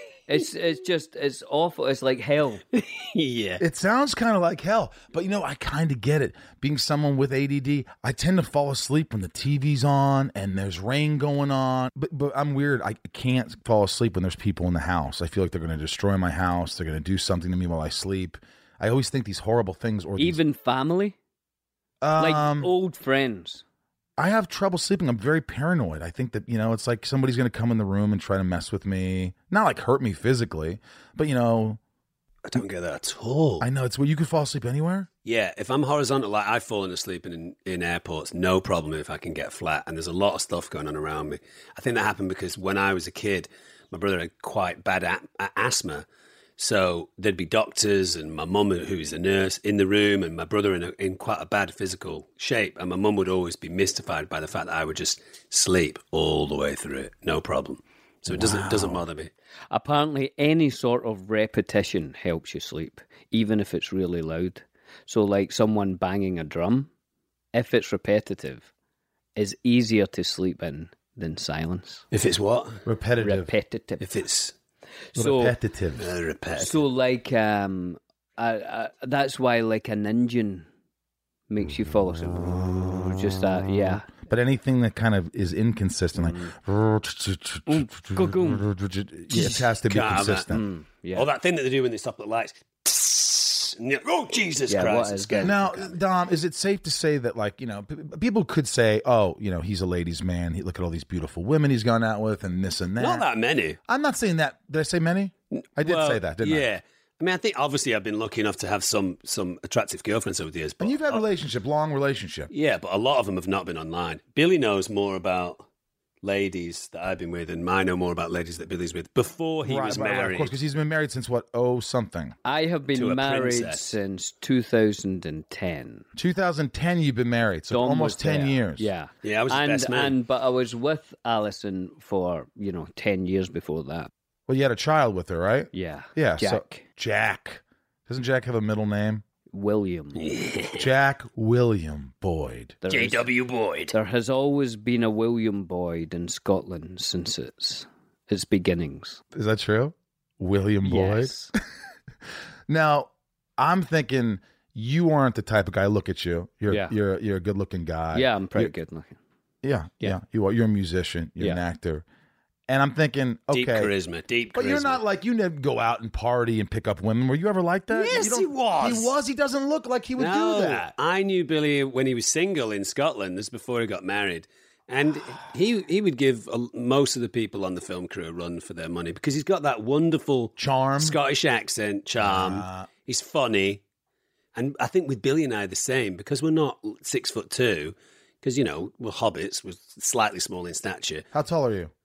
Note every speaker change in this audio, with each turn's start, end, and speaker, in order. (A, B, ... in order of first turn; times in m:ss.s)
0:00.3-0:02.6 A
0:02.7-0:03.6 B
0:03.6-0:20.4 C
0:20.2-0:21.2 A
0:22.0-0:22.7 C
0:22.2-0:23.6 A
0:24.2-0:31.8 C
0:32.4-0:33.7 B
0:33.6-0:35.1 C
0:35.2-0:46.1 B
0:46.6-0:59.3 B
0:58.3-0:59.0 C
0:59.7-1:06.9 A
1:07.5-1:08.7 A
1:09.4-1:12.0 A
1:12.1-1:12.8 B
1:12.8-1:13.5 C
1:13.2-1:14.1 A
1:14.0-1:14.6 B
1:15.1-1:15.6 A
1:15.2-1:16.1 C
1:16.0-1:16.8 B
1:16.6-1:20.7 A
1:21.5-1:24.1 A
1:24.3-1:30.6 C
1:26.2-1:26.5 A
1:27.7-1:28.7 A
1:29.3-1:29.8 A
1:29.9-1:30.5 B
1:30.3-1:31.3 A
1:31.1-1:35.9 B
1:34.7-1:35.7 A
1:35.4-1:43.3 C
1:43.0-1:43.8 B
1:43.9-1:46.7 C
1:45.5-1:51.2 B
1:50.8-1:52.5 C
1:52.5-1:55.6 B
1:56.2-2:00.5 B
1:59.6-2:02.4 C
2:02.5-2:06.1 A
2:02.9-2:04.0 B
2:06.2-2:08.9 C
2:07.7-2:14.1 A
2:09.2-2:10.2 B
2:14.5-2:19.2 C
2:15.7-2:16.8 A
2:19.5-2:20.2 A
2:20.2-2:20.9 B
2:20.8-2:22.8 C
2:22.8-2:23.2 A
2:22.9-2:24.0 B
2:23.9-2:29.2 A
2:29.3-2:31.4 C
2:30.8-2:31.5 A
2:32.7-2:38.7 C
2:36.7-2:37.0 A
2:38.1-2:39.2 A
2:39.6-2:42.0 C
2:42.7-2:43.9 C
2:43.5-2:45.0 B
2:44.6-2:50.9 C
2:47.9-2:49.1 B
2:50.2-3:03.8 B
3:00.6-3:01.2 C
3:02.2-3:02.9 C
3:04.6-3:11.3 B
3:11.3-3:11.9 C